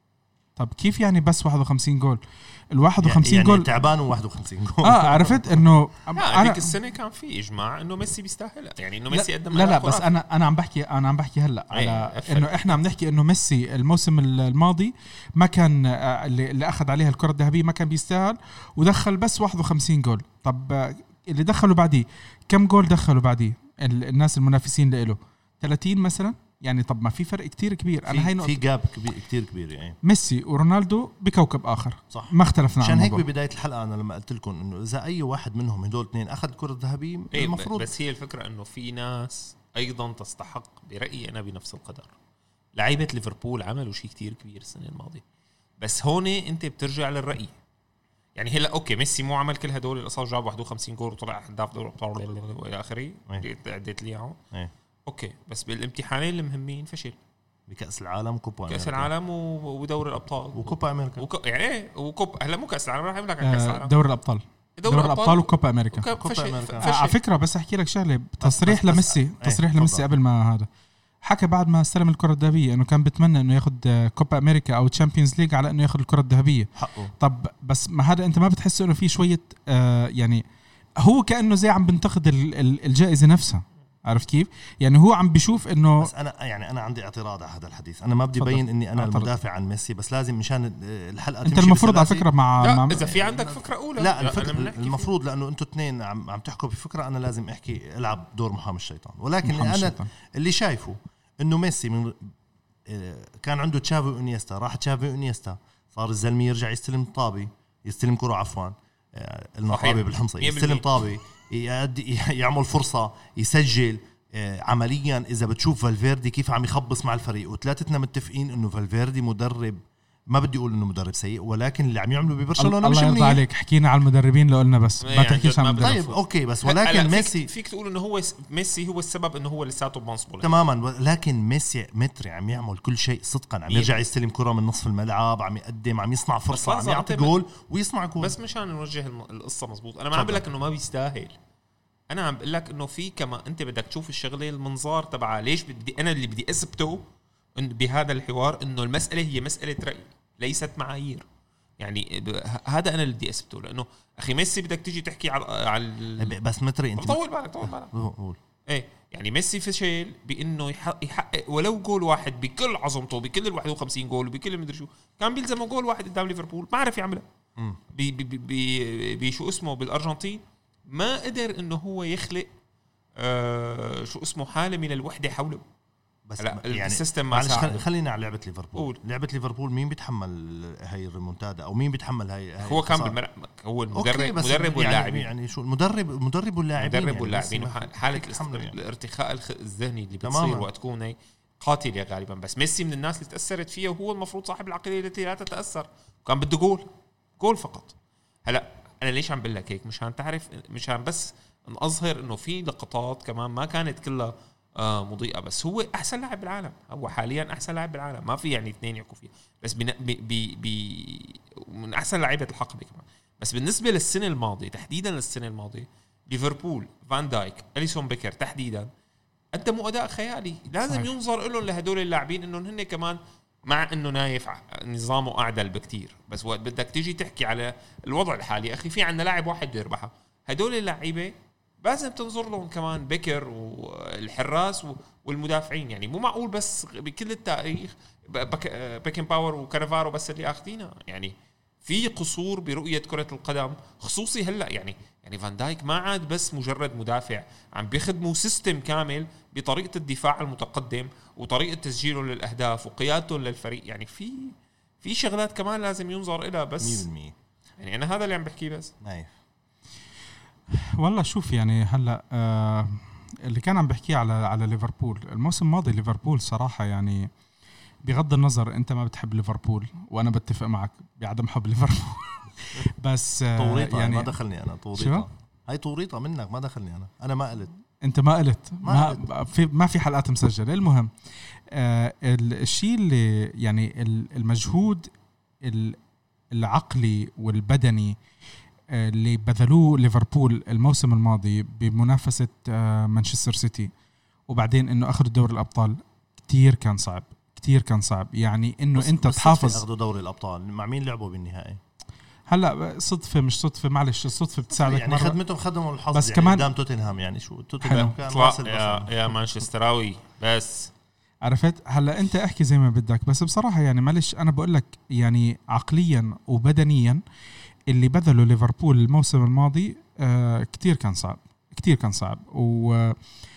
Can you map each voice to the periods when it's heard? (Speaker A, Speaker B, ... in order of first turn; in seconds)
Speaker A: 0.6-3.7, 4.8-6.8, 9.1-28.6, 30.0-33.2, 63.4-66.1, 66.8-70.7, 71.2-80.4, 81.0-86.1, 88.3-89.3, 91.4-93.1, 99.4-100.1, 122.6-126.0, 260.7-267.3, 268.0-274.3, 274.9-275.2, 278.0-281.1, 281.7-285.1, 285.6-286.0, 286.5-288.2, 288.9-293.9, 294.5-299.8, 302.5-305.4, 306.1-306.7, 307.8-308.1, 311.4-317.2, 317.9-323.2
Speaker B: 3.0-5.6, 28.1-30.0, 32.1-37.9, 57.7-59.1, 60.5-61.2, 66.2-66.9, 68.4-70.0, 76.8-77.1, 86.0-92.3, 93.0-102.3, 102.9-123.4, 125.8-127.5, 130.4-138.3, 140.1-140.4, 156.2-158.4, 176.3-183.1, 183.9-188.8, 190.2-190.7, 256.8-257.3, 259.0-259.3, 273.6-277.7, 278.8-279.2, 298.9-301.8, 304.7-309.2
Speaker C: 6.1-10.1, 11.7-12.8, 37.3-42.1, 42.8-45.2, 45.8-47.5, 48.4-54.4, 55.1-57.2, 58.7-63.9, 64.8-67.2, 92.6-95.1, 109.7-111.0, 125.0-130.5, 136.5-137.3, 138.2-141.3, 142.1-147.1, 147.6-151.2, 151.8-156.3, 157.0-157.9, 158.7-167.2, 167.9-172.5, 173.2-175.6, 176.4-177.8, 182.6-185.3, 186.8-196.9, 197.4-197.9, 198.4-218.9, 219.5-257.1, 257.8-258.9, 308.0-310.9